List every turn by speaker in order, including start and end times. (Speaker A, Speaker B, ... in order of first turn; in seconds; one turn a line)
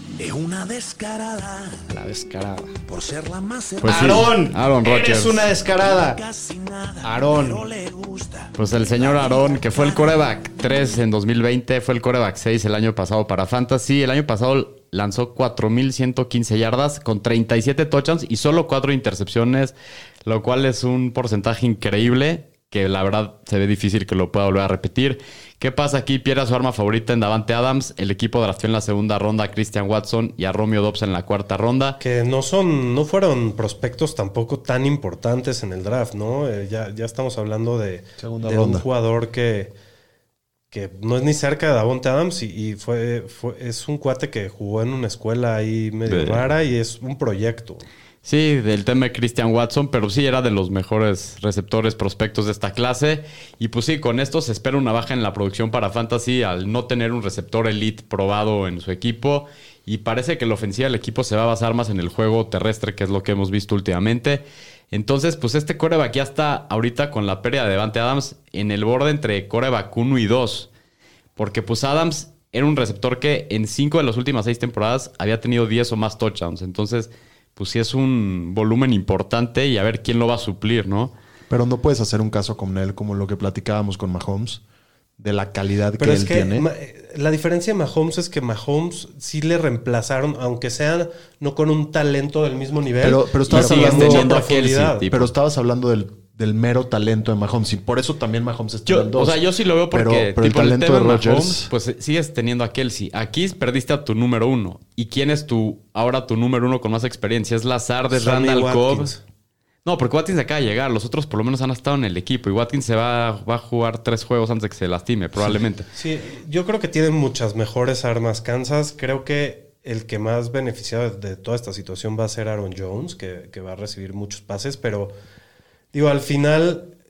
Speaker A: 0.2-1.9
Speaker B: 1.9-2.7
Speaker A: 2.9-4.4
Speaker C: 3.8-5.5
Speaker B: 3.8-6.2
Speaker A: 5.6-10.1
Speaker B: 7.0-7.7
Speaker C: 8.5-19.7
Speaker C: 20.2-32.0
Speaker D: 32.0-39.7
Speaker E: 38.2-38.9
Speaker D: 40.7-47.8
Speaker C: 46.0-46.5
Speaker C: 48.2-70.7
Speaker C: 71.4-81.1
Speaker E: 81.5-84.6
Speaker E: 85.2-86.7
Speaker D: 86.0-95.0
Speaker E: 93.0-94.4
Speaker C: 93.5-95.3
Speaker E: 95.1-101.7
Speaker C: 98.9-109.1
Speaker D: 108.1-109.2
Speaker C: 109.8-115.8
Speaker D: 115.9-125.1
Speaker D: 125.9-126.9